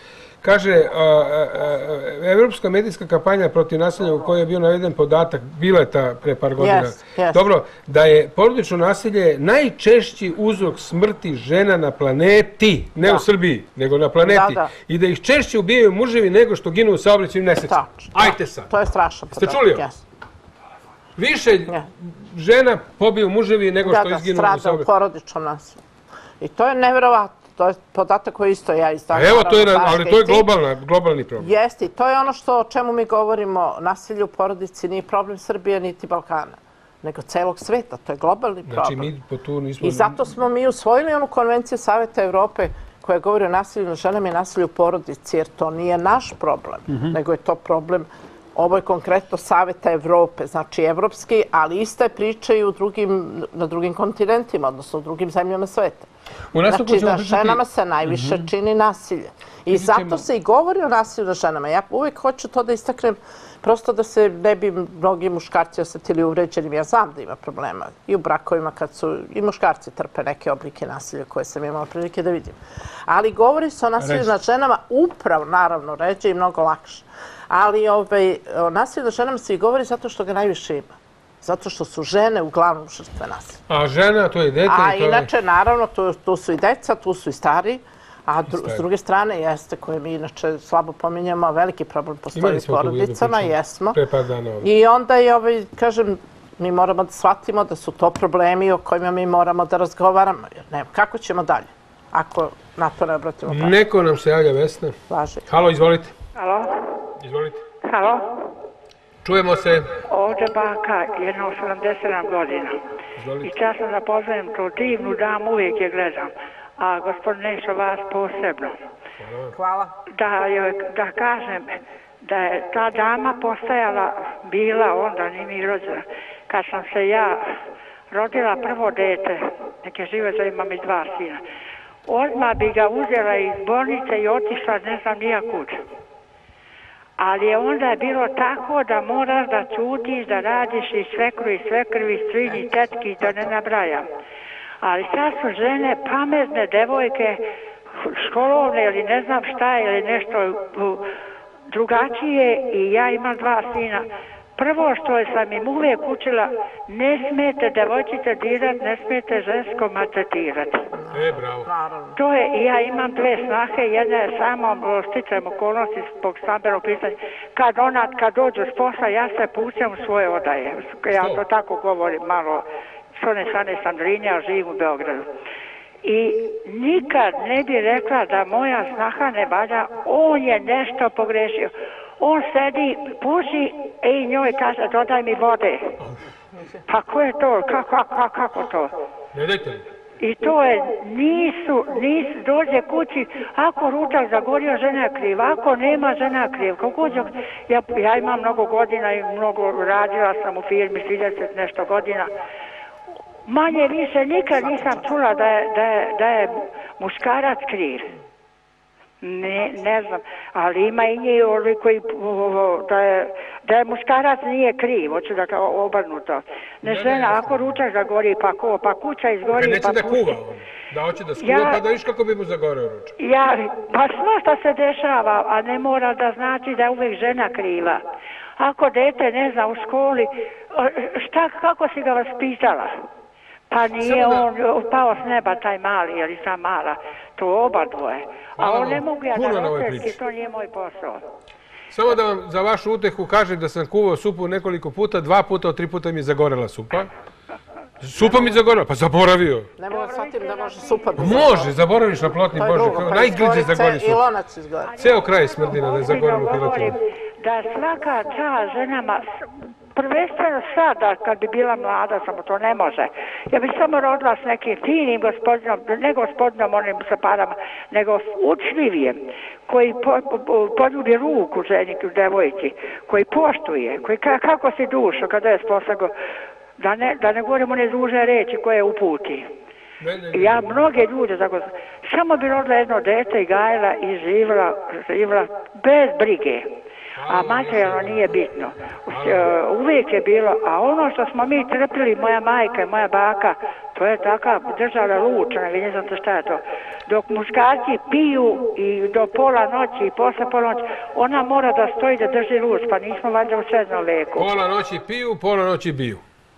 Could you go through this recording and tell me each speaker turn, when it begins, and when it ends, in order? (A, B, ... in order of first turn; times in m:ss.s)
0:00.4-0:18.7 A
0:06.6-0:07.4 B
0:14.2-0:14.7 B
0:17.7-0:20.0 B
0:19.3-0:19.9 A
0:21.2-0:24.9 A
0:23.8-0:25.8 B
0:26.4-0:30.5 B
0:29.1-0:31.5 A
0:31.4-0:39.1 B
0:38.7-0:40.2 A
0:39.8-0:56.1 B
0:56.5-0:58.5 A
0:56.7-1:20.9 B
0:59.7-1:00.2 A
1:14.0-1:14.3 A
1:21.4-1:23.6 B
1:23.7-1:25.3 A
1:24.7-1:34.0 B
1:28.5-1:28.8 A
1:32.4-1:34.7 A
1:34.6-1:43.8 B
1:43.5-1:45.0 A
1:45.1-1:45.4 B
1:45.5-1:46.2 A
1:46.4-1:46.7 C
1:47.2-1:47.6 A
1:47.9-1:48.4 C
1:49.2-1:49.9 A
1:50.1-1:52.8 C
1:53.2-1:53.5 A
1:53.4-1:58.8 C
1:59.2-1:59.5 A
1:59.5-1:59.9 B
2:00.2-2:07.4 C
2:08.1-2:11.4 C
2:12.1-2:15.8 C
2:17.2-2:24.0 C
2:24.8-2:27.4 C
2:28.0-2:31.0 C
2:31.7-2:34.0 C
2:34.6-2:40.8 C
2:40.9-2:42.2 B
2:41.1-2:41.7 A
2:42.2-2:52.6 C
2:51.1-2:51.4 A
2:53.2-2:55.2 C
2:56.0-3:06.0 C
3:06.9-3:08.9 C
3:09.3-3:09.8 A
3:10.2-3:22.3 C
3:23.5-3:28.1 C
3:24.6-3:25.0 B
3:29.2-3:40.4 C
3:36.8-3:37.8 A
3:39.5-3:43.1 A
3:41.4-3:41.8 C
3:43.2-3:48.0 C
3:48.6-3:53.0 C
3:53.7-4:01.2 C
3:54.0-3:54.5 A
3:58.6-4:00.2 A
4:01.9-4:07.1 A
4:08.0-4:09.7 A
4:09.8-4:11.8 B
4:09.9-4:11.4 C
4:11.2-4:14.2 A
4:12.5-4:14.9 B
4:15.0-4:17.0 A
4:15.0-4:19.3 C
4:20.0-4:36.1 C
4:36.8-4:39.5 C
4:40.0-4:41.0 A
4:40.3-4:46.7 C
4:47.2-4:48.3 A
4:47.3-5:04.5 C
4:49.1-4:49.5 A
5:04.4-5:06.2 A